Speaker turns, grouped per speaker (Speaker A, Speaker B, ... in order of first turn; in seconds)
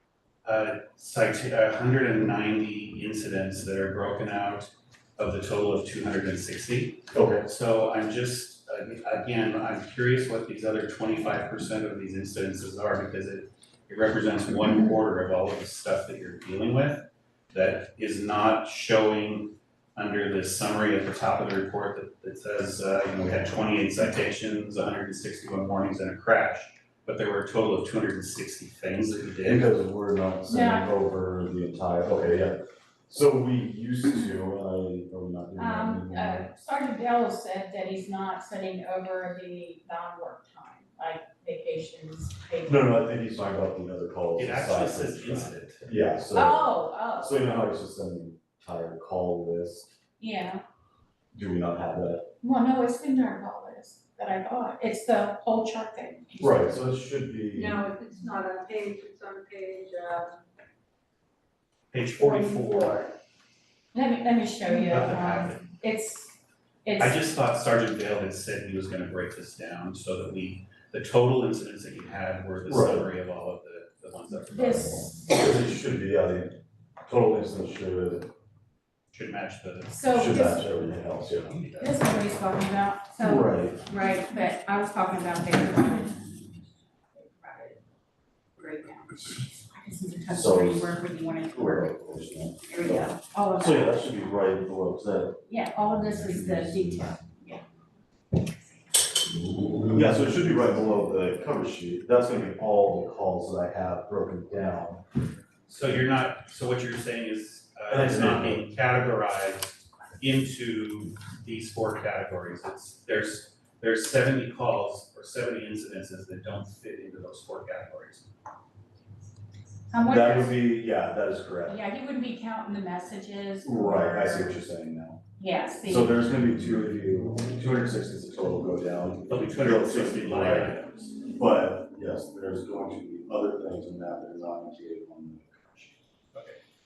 Speaker A: 0.4-29.6, 44.4-45.9, 61.9-63.1, 64.8-65.7, 67.0-75.1, 79.1-80.0, 81.3-82.0, 105.7-118.3, 129.3-130.8
Speaker B: 7.1-7.4, 29.4-36.5, 42.6-49.9, 51.3-52.3, 56.4-57.8, 72.7-73.1, 75.2-78.3, 80.1-81.6, 83.2-83.8, 90.3-91.0, 91.5-95.4, 96.0-97.2, 99.9-105.0, 107.9-108.6, 120.0-121.8, 123.6-125.2, 125.8-136.0
Speaker C: 30.5-30.9, 35.6-43.0, 46.3-47.4, 50.2-50.6, 52.4-56.7, 62.2-62.6, 63.9-67.2, 74.5-75.3, 79.9-80.7, 81.8-87.8, 88.6-92.0, 92.6-94.3, 95.5-97.6, 119.9-120.6, 121.7-124.6, 125.4-126.2
Speaker D: 57.5-60.4, 62.7-63.0